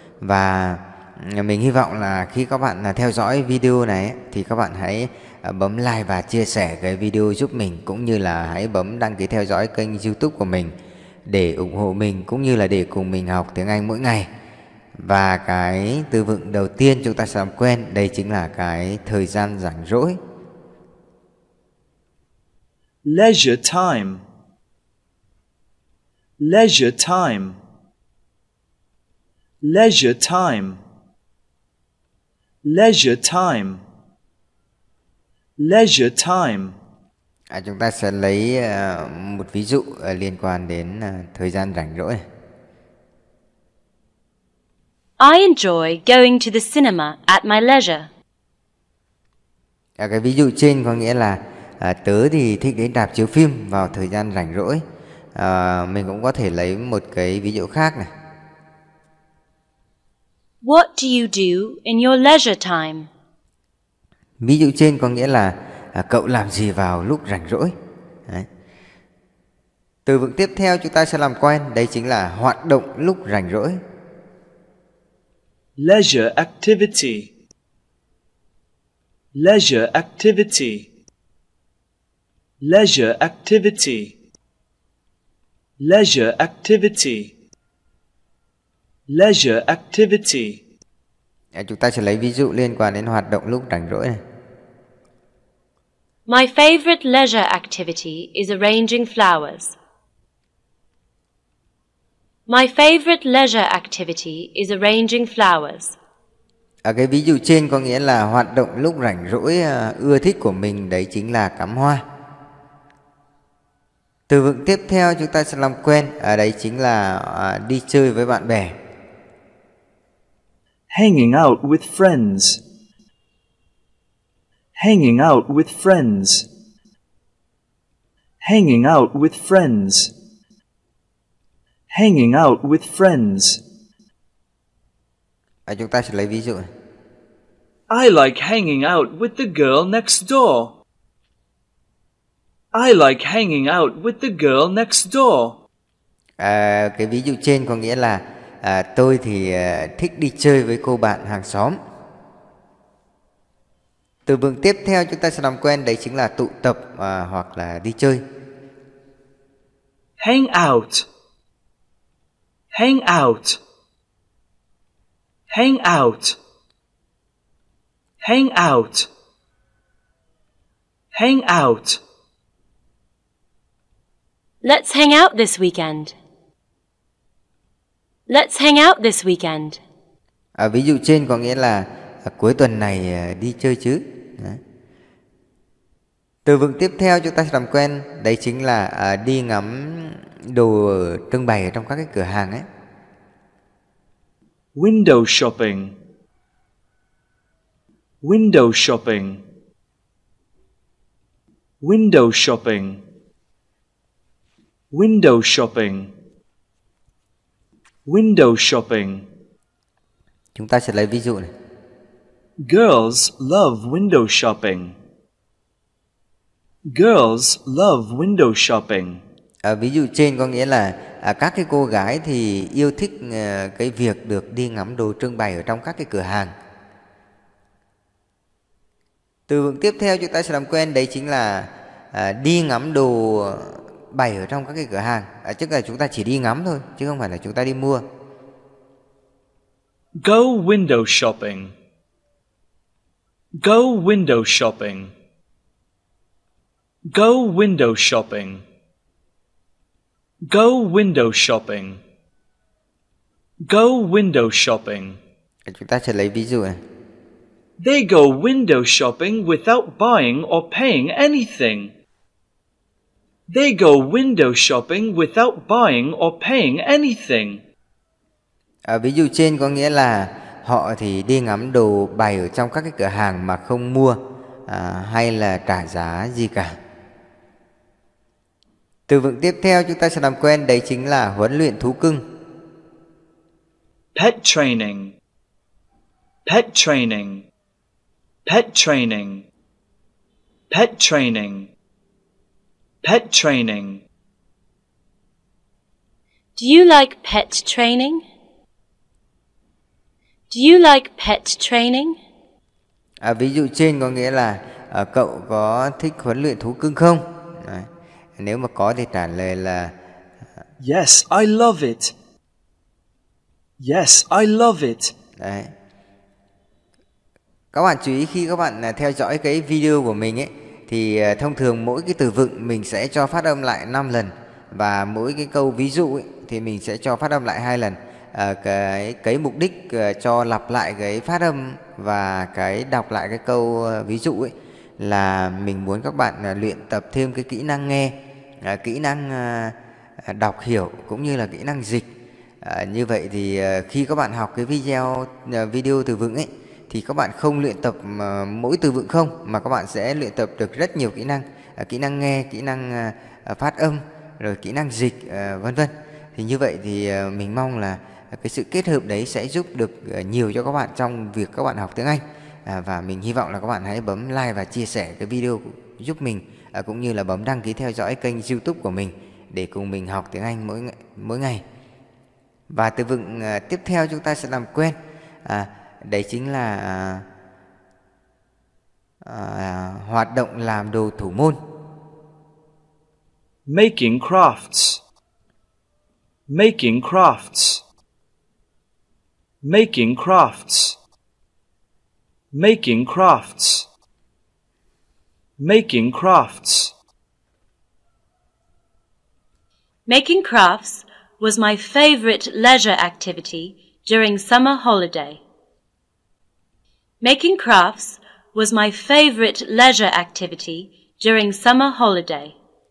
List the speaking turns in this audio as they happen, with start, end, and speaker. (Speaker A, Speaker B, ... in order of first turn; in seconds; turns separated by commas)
Speaker A: 0.2-10.7, Speaker A: 11.3-14.3, Speaker A: 15.0-20.2, Speaker B: 23.0-24.2, Speaker B: 26.4-27.6, Speaker B: 29.6-30.8, Speaker B: 32.6-33.8, Speaker B: 35.6-36.8, Speaker A: 37.5-42.2, Speaker C: 45.2-48.1, Speaker A: 50.0-54.8, Speaker A: 55.4-58.1, Speaker C: 60.6-63.1, Speaker A: 64.4-67.7, Speaker A: 70.1-73.8, Speaker B: 75.8-77.3, Speaker B: 79.3-80.9, Speaker B: 82.6-84.1, Speaker B: 85.8-87.3, Speaker B: 89.1-90.6, Speaker A: 91.5-94.2, Speaker C: 96.3-99.8, Speaker C: 102.5-106.0, Speaker A: 106.8-112.0, Speaker A: 114.3-118.8, Speaker B: 120.9-122.6, Speaker B: 124.8-126.5, Speaker B: 128.4-130.1, Speaker B: 131.9-133.6, Speaker A: 135.7-136.7, Speaker B: 137.9-140.7, Speaker B: 142.7-145.6, Speaker A: 146.4-151.8, Speaker A: 154.3-158.2, Speaker B: 160.2-161.1, Speaker B: 162.7-163.6, Speaker B: 165.5-166.4, Speaker B: 168.2-169.1, Speaker B: 171.1-172.0, Speaker C: 174.6-176.2, Speaker C: 178.3-179.8, Speaker A: 180.6-184.6, Speaker A: 186.4-192.7, Speaker B: 194.8-196.0, Speaker B: 198.2-199.4, Speaker B: 201.8-203.0, Speaker B: 204.9-206.1, Speaker B: 208.1-209.3, Speaker A: 210.6-211.5, Speaker B: 212.6-215.0, Speaker B: 216.9-219.2, Speaker A: 219.6-226.5, Speaker A: 229.5-238.1, Speaker B: 240.2-241.7, Speaker B: 243.6-245.1, Speaker B: 247.1-248.6, Speaker B: 250.4-252.0, Speaker B: 253.7-255.2, Speaker A: 255.7-256.8, Speaker B: 257.8-261.9, Speaker B: 263.5-267.6, Speaker A: 268.9-276.8, Speaker A: 279.1-282.2, Speaker B: 284.1-285.1, Speaker B: 286.5-287.4, Speaker B: 288.5-289.4, Speaker B: 290.7-291.7, Speaker B: 293.0-294.0, Speaker C: 296.6-298.2, Speaker C: 300.5-302.2, Speaker A: 303.2-309.9, Speaker B: 310.8-312.1, Speaker B: 313.8-315.1, Speaker A: 315.4-315.7, Speaker A: 317.7-342.1, Speaker A: 342.6-371.6, Speaker A: 372.7-377.2, Speaker A: 379.2-381.6, Speaker B: 383.7-385.0, Speaker B: 386.5-387.8, Speaker B: 389.6-391.0, Speaker B: 392.5-393.9, Speaker B: 395.6-396.9, Speaker C: 400.1-405.4, Speaker C: 407.2-412.5